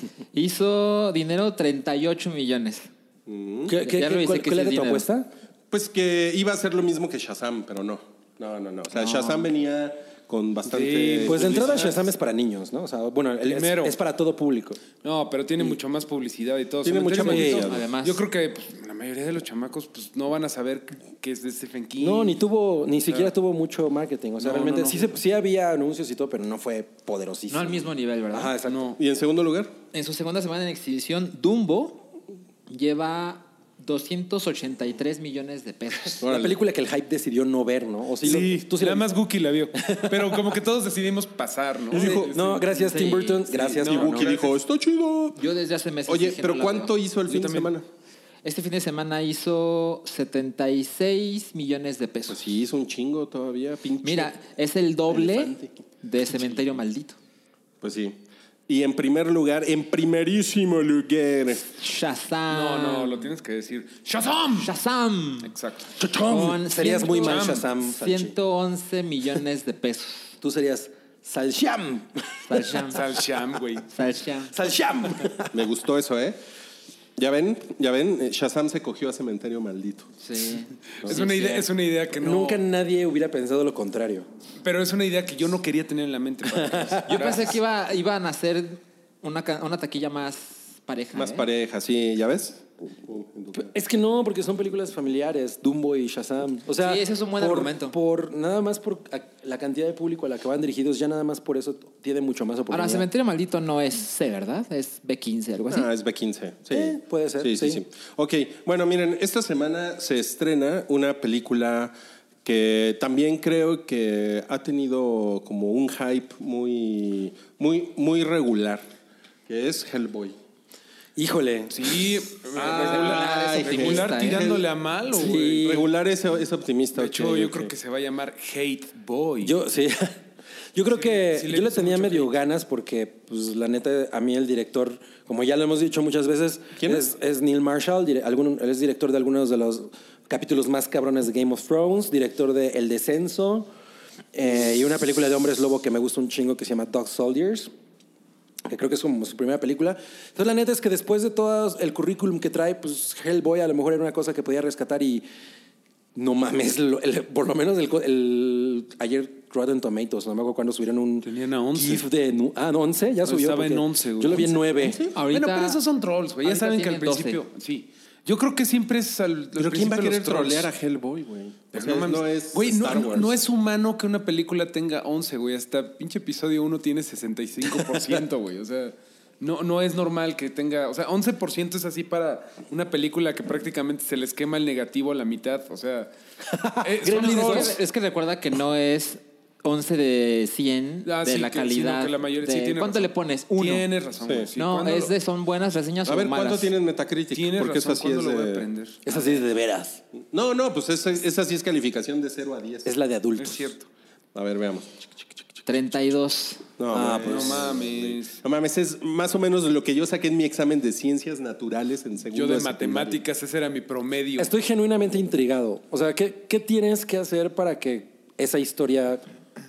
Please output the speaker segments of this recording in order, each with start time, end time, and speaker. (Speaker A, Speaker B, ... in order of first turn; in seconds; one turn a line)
Speaker A: 0.3-2.9
Speaker B: 3.3-3.8
Speaker C: 3.6-5.3
Speaker A: 3.8-5.1
Speaker B: 5.7-11.9
Speaker A: 8.9-9.5
Speaker D: 10.7-12.0
Speaker C: 11.2-14.8
Speaker D: 13.4-14.0
Speaker D: 15.0-22.4
Speaker B: 16.8-17.9
Speaker C: 17.2-17.7
Speaker A: 17.4-18.2
Speaker C: 22.0-29.0
Speaker D: 23.1-23.3
Speaker D: 24.4-25.1
Speaker A: 27.5-28.5
Speaker D: 28.7-29.0
Speaker B: 29.0-29.7
Speaker A: 29.9-32.1
Speaker A: 32.7-36.3
Speaker B: 36.2-36.5
Speaker C: 36.2-39.1
Speaker D: 38.2-42.6
Speaker C: 39.8-40.6
Speaker C: 41.9-44.4
Speaker B: 41.9-42.3
Speaker A: 42.7-43.5
Speaker D: 43.7-44.5
Speaker B: 43.8-45.4
Speaker A: 45.4-46.9
Speaker B: 46.1-47.8
Speaker D: 47.3-47.7
Speaker A: 48.4-52.4
Speaker B: 52.3-54.3
Speaker A: 54.0-57.2
Speaker B: 55.1-55.7
Speaker B: 57.8-61.6
Speaker A: 61.6-63.3
Speaker D: 62.5-64.7
Speaker A: 64.6-65.5
Speaker D: 65.4-65.9
Speaker C: 65.9-68.3
Speaker A: 66.3-70.3
Speaker D: 67.2-67.7
Speaker C: 70.4-72.9
Speaker A: 72.5-73.0
Speaker D: 72.8-73.8
Speaker A: 73.9-74.5
Speaker C: 74.5-75.7
Speaker B: 75.5-76.4
Speaker B: 77.2-80.1
Speaker A: 80.2-81.7
Speaker D: 81.0-82.6
Speaker C: 82.2-84.3
Speaker D: 84.6-87.6
Speaker C: 86.5-87.0
Speaker A: 87.1-91.5
Speaker B: 91.2-93.7
Speaker C: 93.5-103.1
Speaker A: 96.8-98.0
Speaker A: 102.7-105.9
Speaker B: 105.7-118.8
Speaker C: 106.7-107.8
Speaker B: 119.5-120.3
Speaker C: 121.2-121.9
Speaker D: 121.7-125.7
Speaker B: 122.5-124.7
Speaker A: 122.6-124.5
Speaker C: 125.1-125.9
Speaker B: 125.3-127.7
Speaker D: 126.9-129.6
Speaker C: 129.4-130.2
Speaker C: 130.7-143.7
Speaker D: 130.9-132.3
Speaker B: 136.8-137.0
Speaker C: 144.3-147.7
Speaker C: 148.7-155.2
Speaker C: 156.1-165.0
Speaker D: 161.2-162.0
Speaker D: 163.2-164.6
Speaker B: 164.8-165.2
Speaker A: 165.1-165.8
Speaker D: 165.3-170.7
Speaker A: 166.4-167.4
Speaker B: 169.6-173.3
Speaker D: 171.7-186.1
Speaker C: 177.7-178.2
Speaker C: 186.4-187.8
Speaker D: 186.8-187.8
Speaker A: 187.1-193.9
Speaker D: 191.1-195.1
Speaker B: 194.2-194.5
Speaker A: 194.6-196.7
Speaker B: 196.1-198.7
Speaker D: 197.3-199.3
Speaker C: 199.0-200.0
Speaker B: 200.3-202.9
Speaker C: 202.8-203.7
Speaker D: 203.4-203.9
Speaker B: 204.3-205.6
Speaker A: 205.7-206.6
Speaker B: 206.8-213.2
Speaker C: 206.9-207.8
Speaker D: 207.2-208.4
Speaker D: 212.3-214.5
Speaker C: 214.4-219.2